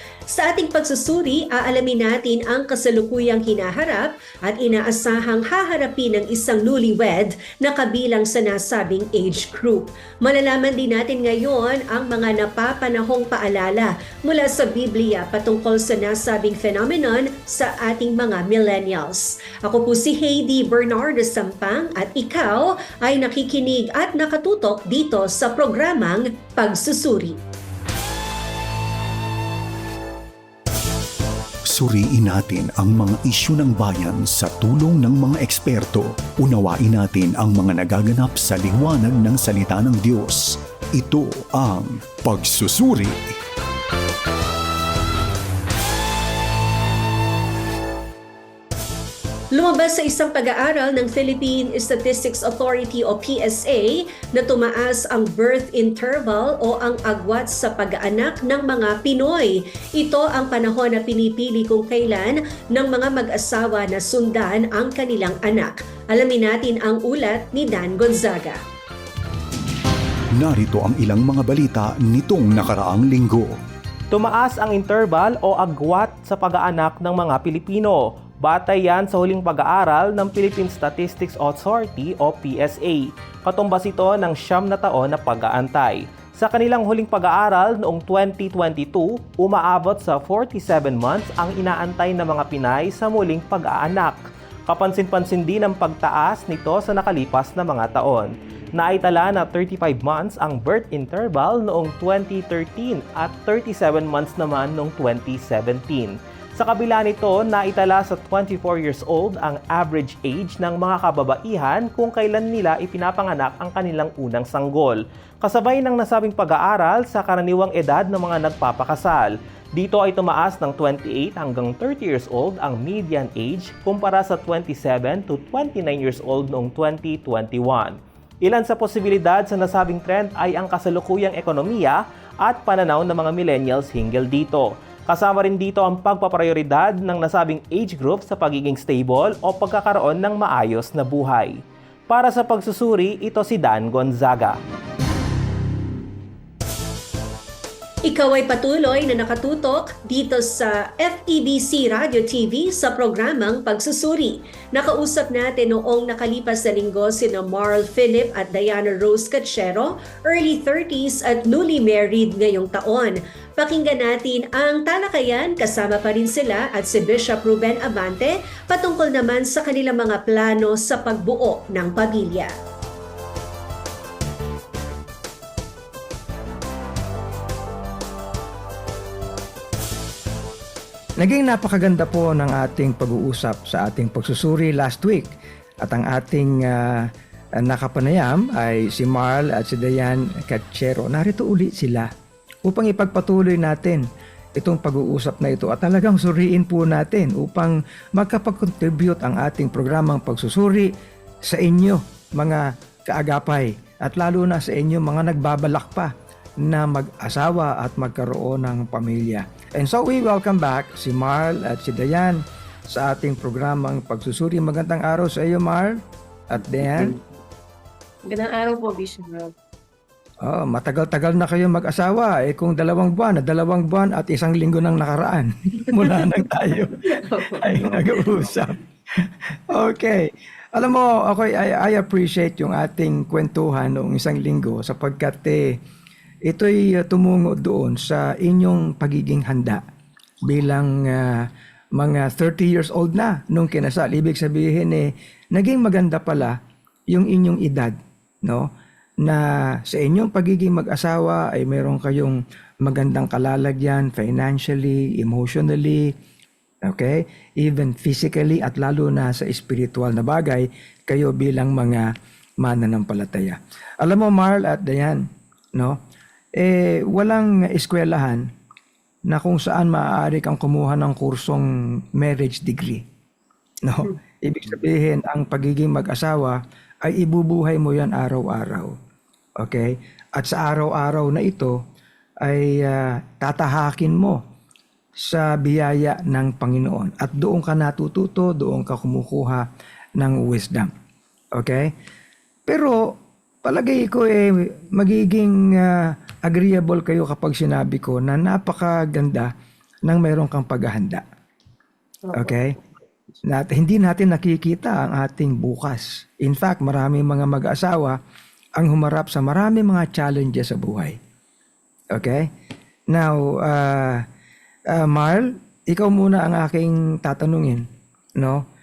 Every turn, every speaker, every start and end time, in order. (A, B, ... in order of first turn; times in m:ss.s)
0:00.3-0:27.4 A
0:31.7-0:43.3 B
0:49.5-1:08.6 A
1:10.4-1:13.6 B
1:14.1-2:24.6 C
2:28.0-2:52.5 A
3:01.2-3:05.3 D
3:05.8-3:12.1 D
3:12.6-3:14.0 D
3:14.6-3:20.9 D
3:21.4-3:37.2 D
3:38.3-3:39.5 E
3:40.4-3:55.8 D
3:47.0-3:48.3 E
3:56.4-3:59.8 D
4:00.4-4:06.6 D
4:07.1-4:08.7 D
4:09.2-4:16.1 D
4:16.8-4:26.0 D
4:26.6-4:28.5 D
4:29.3-4:33.0 D
4:33.8-4:38.9 D
4:39.6-4:41.8 D
4:42.4-4:44.4 D
4:45.2-4:49.6 D
4:50.2-4:50.9 D
4:51.5-4:51.9 D
4:52.7-4:59.5 D
5:00.0-5:01.2 D
5:02.2-5:02.6 E
5:02.3-5:02.8 D
5:03.4-5:08.2 D
5:08.8-5:11.2 D
5:12.1-5:12.5 D
5:13.1-5:14.2 D
5:14.9-5:17.8 D
5:18.4-5:18.6 D